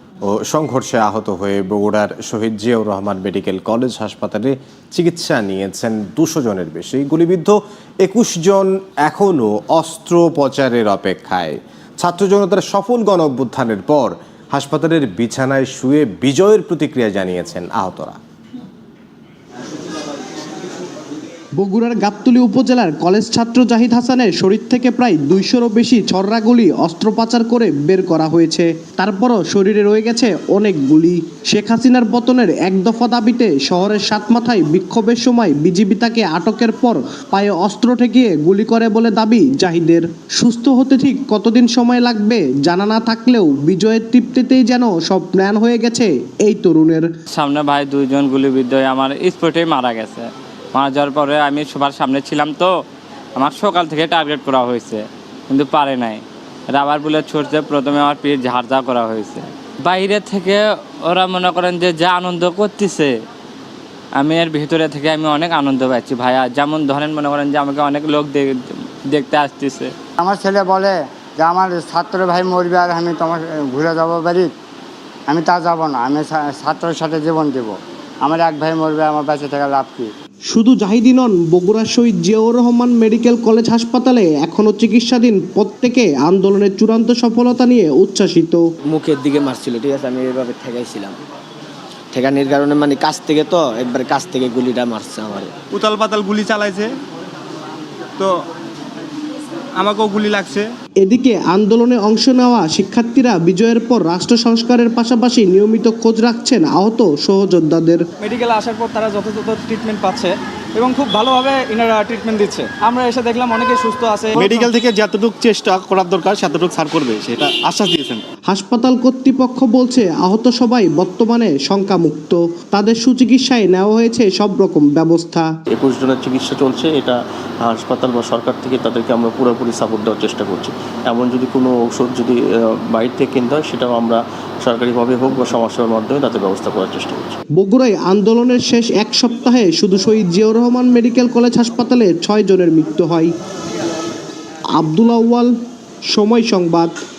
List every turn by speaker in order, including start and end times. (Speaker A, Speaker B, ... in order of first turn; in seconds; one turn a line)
Speaker A: 0.3-18.2
Speaker B: 21.6-47.1
Speaker C: 47.3-52.7
Speaker C: 53.4-63.1
Speaker C: 64.2-69.9
Speaker D: 70.2-74.5
Speaker D: 75.3-80.1
Speaker B: 80.5-88.6
Speaker E: 88.9-91.2
Speaker E: 92.1-95.5
Speaker F: 95.7-96.9
Speaker F: 99.8-100.7
Speaker B: 101.0-108.0
Speaker G: 108.2-114.7
Speaker F: 114.4-118.2
Speaker B: 118.5-125.5
Speaker H: 125.7-137.4
Speaker B: 137.6-143.3
Speaker B: 144.8-145.5
Speaker B: 146.1-146.9